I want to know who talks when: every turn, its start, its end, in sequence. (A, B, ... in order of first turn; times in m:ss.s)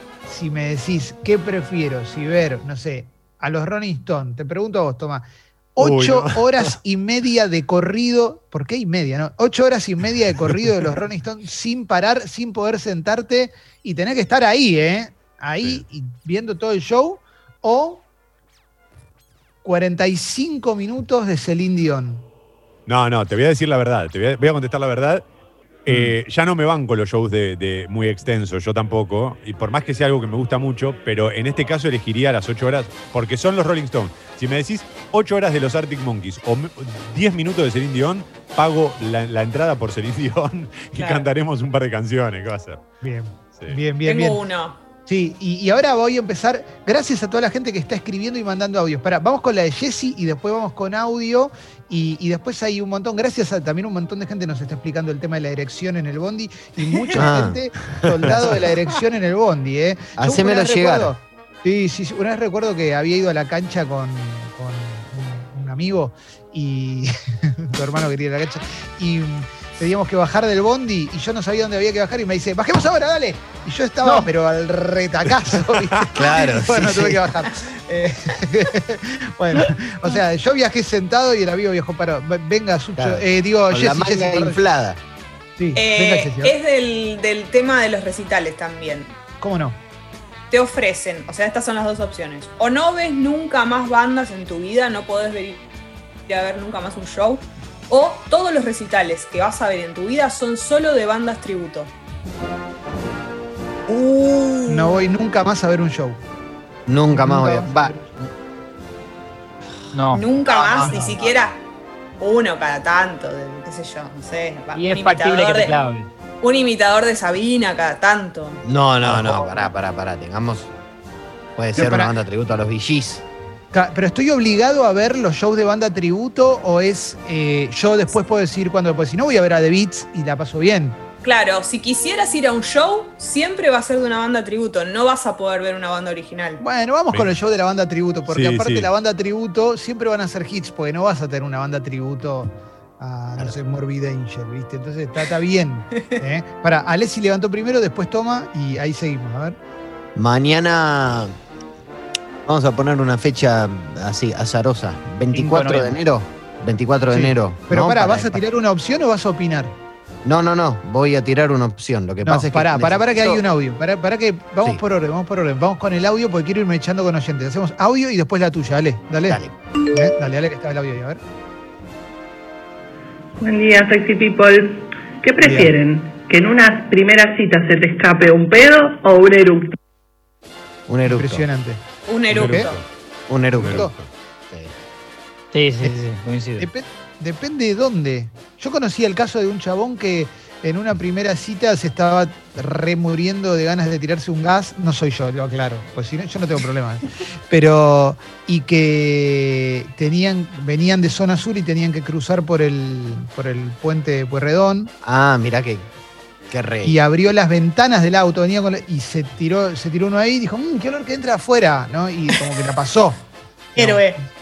0:00.3-0:18.0 A
0:05.8-0:06.7 B
0:19.6-0:22.2 A
0:22.9-0:25.2 B
0:25.9-0:42.8 B
0:25.9-0:26.1 C
0:41.0-0:41.3 D
0:43.0-0:44.4 A
0:44.0-0:44.8 D
0:45.1-1:24.6 A
0:56.9-0:57.3 D
0:57.1-0:57.6 E
0:57.9-0:58.4 B
0:58.3-0:58.6 E
1:00.2-1:01.1 E
1:14.0-1:14.3 C
1:16.1-1:17.2 E
1:23.0-1:25.0 E
1:25.6-1:26.5 A
1:25.8-1:29.2 D
1:29.4-1:29.8 A
1:30.5-1:35.6 D
1:36.3-1:41.9 D
1:44.7-1:46.2 A
1:46.9-1:48.2 E
1:47.1-1:48.1 A
1:49.9-1:50.2 C
1:50.1-1:51.6 D
1:50.5-1:51.3 E
1:50.7-1:51.2 A
1:52.2-1:55.8 D
1:54.8-1:56.1 C
1:56.4-1:58.6 D
1:58.6-2:00.7 E
1:59.0-1:59.6 C
2:01.6-2:03.2 E
2:01.8-2:02.1 A
2:03.7-2:11.0 A
2:11.2-2:16.6 D
2:16.6-2:29.6 A
2:18.3-2:18.9 B
2:30.2-2:31.4 E
2:32.4-2:38.4 E
2:35.3-2:36.0 C
2:37.1-2:39.8 A
2:40.2-2:43.4 E
2:42.2-2:51.2 A
2:49.3-2:49.6 E
2:53.4-2:59.8 F
2:55.4-2:55.8 A
3:00.9-3:01.5 E
3:01.0-3:02.7 A
3:02.1-3:02.8 D
3:02.3-3:02.8 B
3:03.3-3:03.9 E
3:03.6-3:04.1 B
3:03.7-3:03.9 A
3:04.5-3:04.8 E
3:05.5-3:06.7 C
3:06.6-3:24.9 A
3:25.0-3:25.9 E
3:26.5-3:27.0 E
3:26.8-3:33.2 A
3:33.8-3:34.3 A
3:33.8-3:34.2 D